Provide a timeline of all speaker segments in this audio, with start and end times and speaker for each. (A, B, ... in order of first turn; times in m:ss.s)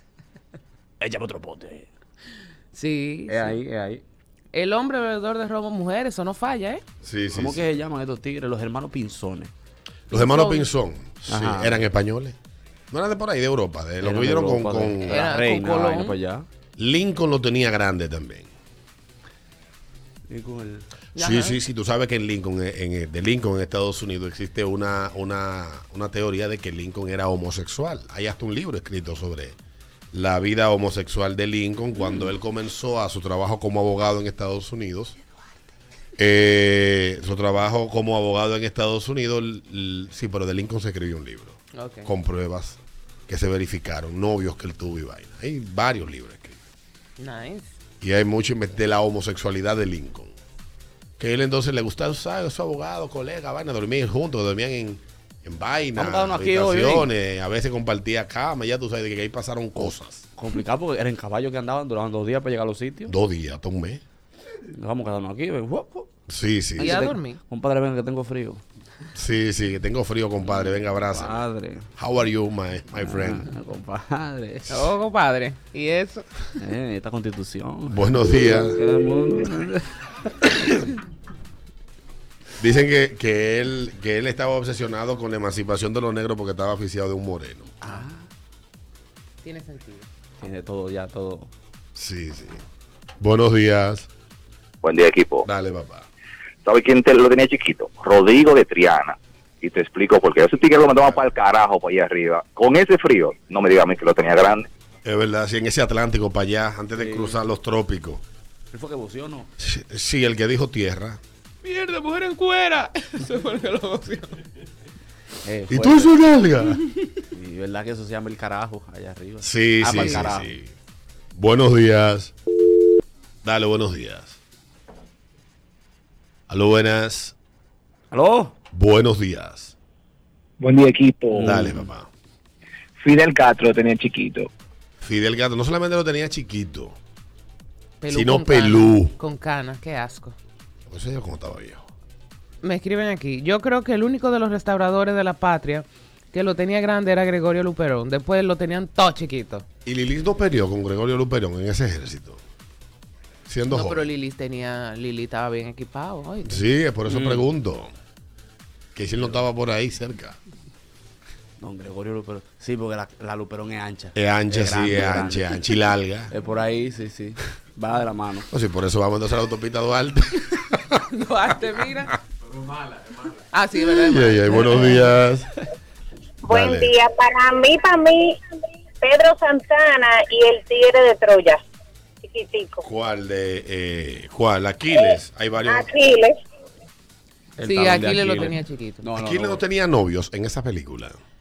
0:01.0-0:01.9 A
0:02.7-0:03.6 B
0:03.3-0:04.0 A
0:04.5-0:06.8 B
0:07.0-0:07.6 C
0:07.3-0:09.5 A
0:10.1-0:12.3 C
0:10.1-0:10.7 B
0:11.3-0:11.9 A
0:12.9-0:15.2 C
0:14.0-0:16.4 A
0:15.0-0:16.2 B
0:16.8-0:18.5 C
0:20.3-0:20.8 A
0:21.1-0:21.6 B
0:21.2-0:29.6 C
0:30.1-0:35.2 C
0:36.2-0:46.6 C
0:41.7-0:42.1 B
0:47.2-0:47.7 B
0:48.0-0:50.3 C
0:51.2-1:00.2 C
0:55.9-0:57.1 A
0:59.8-1:03.1 A
1:03.1-1:04.0 C
1:04.7-1:06.1 A
1:06.3-1:07.1 C
1:06.8-1:08.6 A
1:06.8-1:07.4 B
1:09.1-1:11.4 C
1:10.4-1:11.8 A
1:12.0-1:13.5 C
1:13.0-1:14.9 A
1:14.7-1:16.5 B
1:16.6-1:19.9 A
1:17.9-1:18.8 C
1:22.6-1:27.7 C
1:27.8-1:28.2 A
1:29.4-1:30.1 B
1:30.4-1:31.5 A
1:31.9-1:32.6 C
1:33.2-1:34.1 C
1:34.8-1:35.4 D
1:35.4-1:36.1 C
1:36.6-1:44.7 D
1:40.9-1:41.3 C
1:45.0-1:48.2 C
1:46.9-1:47.4 A
1:48.7-1:49.5 A
1:49.6-1:51.2 C
1:51.6-1:54.4 B
1:55.4-1:56.2 A
1:55.7-1:56.8 C
1:57.3-2:00.6 A
1:59.4-2:00.7 C
1:59.9-2:00.3 B
2:01.3-2:02.3 C
2:03.4-2:04.4 C
2:06.5-2:07.3 C
2:08.1-2:08.5 A
2:08.7-2:09.7 C
2:10.6-2:11.5 E
2:11.3-2:11.9 A
2:11.4-2:12.1 C
2:13.0-2:14.3 E
2:15.0-2:17.0 C
2:18.0-2:20.3 B
2:18.1-2:19.1 C
2:20.9-2:21.8 C
2:22.6-2:29.6 B
2:29.8-2:32.4 C
2:33.5-2:34.0 C
2:33.6-2:36.6 B
2:36.4-2:37.9 C
2:37.1-2:37.4 A
2:38.9-2:40.4 C
2:41.6-2:45.6 A
2:44.2-2:46.3 C
2:46.3-2:48.5 A
2:48.5-2:51.0 C
2:51.1-2:52.1 B
2:53.5-2:55.1 B
2:53.9-2:55.5 C
2:56.5-2:58.4 F
2:56.5-2:56.9 C
2:56.7-2:58.3 D
2:59.0-3:01.6 F
2:59.0-3:01.5 D
3:02.2-3:02.8 F
3:02.8-3:05.9 C
3:05.7-3:06.3 F
3:07.6-3:09.6 A
3:07.6-3:09.1 B
3:09.1-3:11.2 C